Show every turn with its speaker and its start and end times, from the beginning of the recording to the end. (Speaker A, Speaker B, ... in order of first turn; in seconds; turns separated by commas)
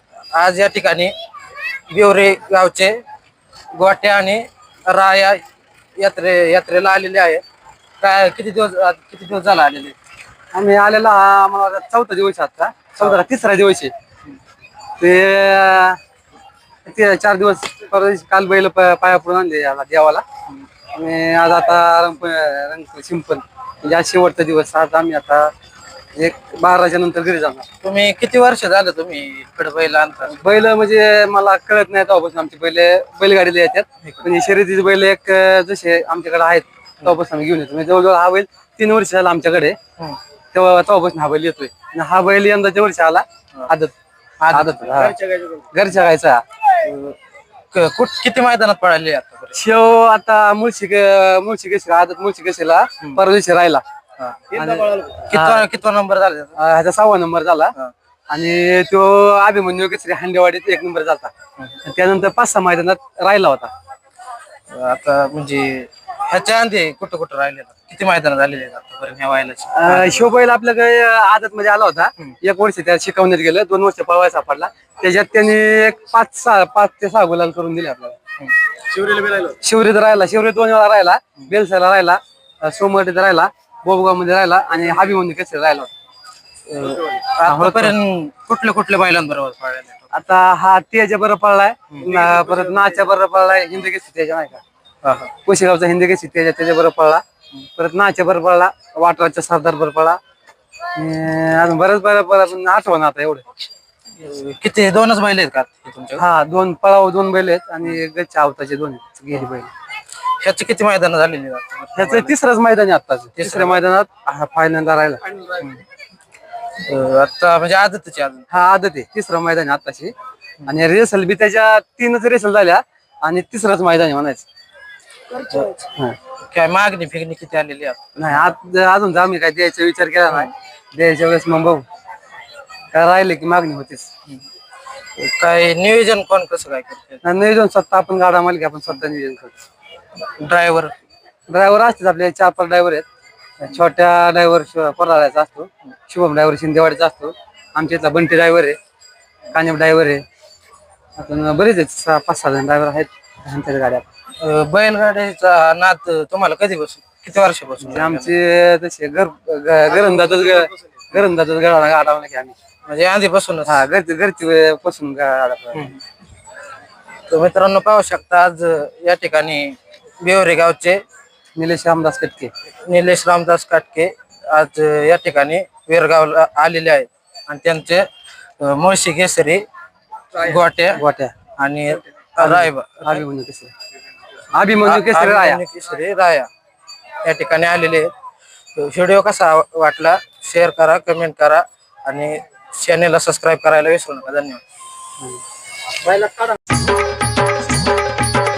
Speaker A: 0.3-1.1, Speaker A: 1.9-3.0, Speaker A: 3.7-5.4, Speaker A: 6.0-7.4, Speaker A: 8.0-9.9, Speaker B: 10.5-13.9, Speaker B: 15.0-16.0, Speaker B: 16.9-20.2, Speaker B: 20.9-25.5, Speaker B: 26.2-27.7, Speaker A: 27.8-30.3, Speaker B: 30.3-39.8, Speaker B: 40.5-43.9, Speaker A: 44.4-45.6, Speaker B: 44.5-45.2, Speaker B: 45.7-46.4, Speaker A: 46.8-47.2, Speaker A: 47.7-49.6, Speaker B: 49.5-53.8, Speaker A: 54.2-56.5, Speaker B: 54.5-55.7, Speaker B: 56.5-57.7, Speaker B: 58.3-61.3, Speaker B: 61.8-63.7, Speaker A: 64.7-70.3, Speaker B: 69.7-78.2, Speaker B: 79.3-85.9, Speaker A: 86.7-90.1, Speaker B: 87.4-88.0, Speaker B: 90.1-94.6, Speaker A: 95.0-95.3, Speaker B: 95.4-97.2, Speaker B: 97.8-100.2, Speaker B: 100.9-103.4, Speaker A: 104.1-106.2, Speaker B: 106.2-109.7, Speaker A: 110.4-112.3, Speaker B: 112.0-115.2, Speaker A: 113.3-113.8, Speaker A: 115.5-115.8, Speaker A: 116.8-118.5, Speaker B: 118.5-120.1, Speaker B: 120.7-124.5, Speaker A: 125.3-125.9, Speaker A: 126.4-128.1, Speaker B: 128.2-131.8, Speaker B: 132.9-134.1, Speaker A: 135.2-137.2, Speaker B: 137.2-139.6, Speaker A: 140.3-140.9, Speaker B: 141.5-143.1, Speaker B: 143.6-148.8, Speaker B: 149.5-150.2, Speaker B: 151.2-154.0, Speaker A: 154.4-158.3, Speaker B: 157.8-162.5, Speaker A: 162.8-163.8, Speaker B: 163.7-165.9, Speaker A: 165.7-166.0, Speaker A: 167.3-171.0, Speaker B: 171.6-172.5, Speaker A: 172.9-178.1, Speaker A: 178.6-179.6, Speaker A: 180.3-181.0, Speaker B: 180.9-181.3, Speaker A: 181.6-183.2, Speaker B: 182.4-183.7, Speaker B: 184.5-185.6, Speaker A: 184.8-186.5, Speaker A: 187.2-188.1, Speaker A: 188.8-194.6, Speaker B: 196.0-196.5